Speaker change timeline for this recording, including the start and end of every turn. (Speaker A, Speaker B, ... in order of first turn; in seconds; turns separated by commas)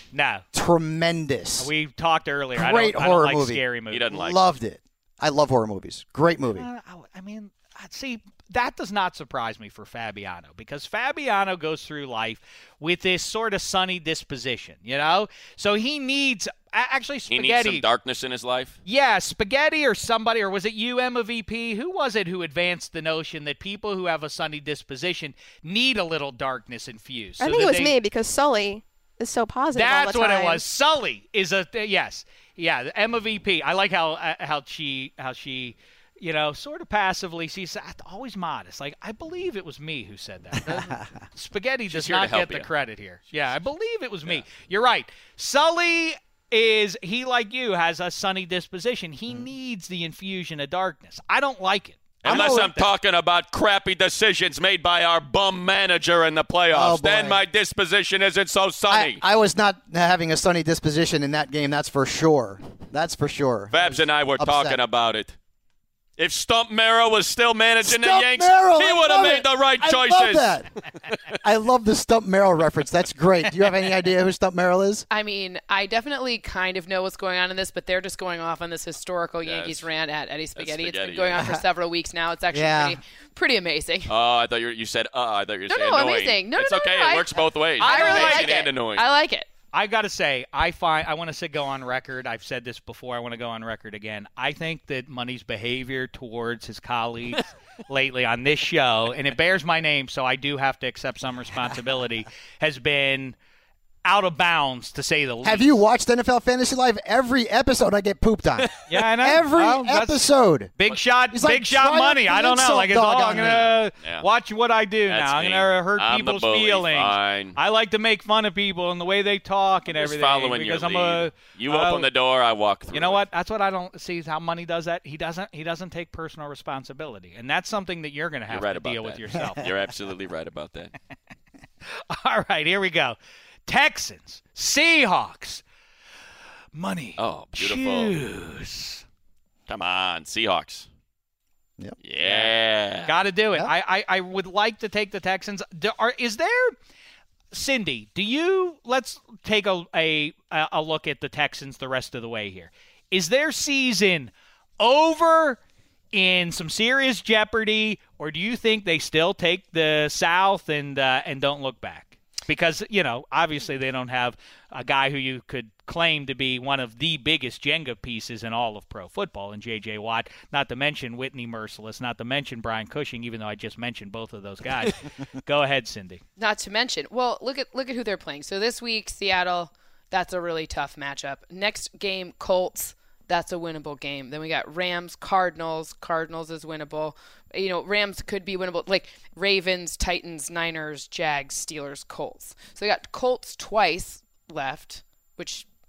Speaker A: 0.1-0.4, Speaker B: 0.5-1.7, Speaker A: 1.6-4.0, Speaker B: 2.5-6.7, Speaker C: 3.9-4.4, Speaker A: 6.5-17.9, Speaker C: 17.3-18.8, Speaker A: 18.9-27.9, Speaker D: 27.4-30.6, Speaker A: 29.7-52.9, Speaker B: 40.7-41.0, Speaker C: 41.9-42.7, Speaker C: 52.2-59.2, Speaker B: 52.2-52.7, Speaker B: 56.7-57.4, Speaker B: 58.9-64.8, Speaker C: 63.7-65.3, Speaker C: 66.2-70.6, Speaker B: 67.8-70.7, Speaker B: 71.4-75.1, Speaker E: 75.1-84.1, Speaker C: 79.4-79.9, Speaker C: 80.5-81.5, Speaker B: 82.5-83.0, Speaker C: 84.1-89.1, Speaker E: 85.7-89.5, Speaker A: 87.8-88.7, Speaker A: 89.7-103.3, Speaker A: 104.0-105.8, Speaker B: 105.4-110.7, Speaker A: 108.9-110.2, Speaker A: 110.8-122.1, Speaker B: 111.3-113.7, Speaker C: 113.3-114.3, Speaker C: 115.1-117.6, Speaker C: 119.9-123.2, Speaker A: 122.9-129.7, Speaker C: 128.5-130.9, Speaker A: 132.1-135.6, Speaker A: 136.7-139.0, Speaker C: 137.2-138.2, Speaker C: 139.7-140.9, Speaker C: 142.0-143.1, Speaker A: 142.2-142.5, Speaker A: 143.0-146.8, Speaker A: 147.5-155.6, Speaker A: 156.1-176.2, Speaker E: 176.4-195.7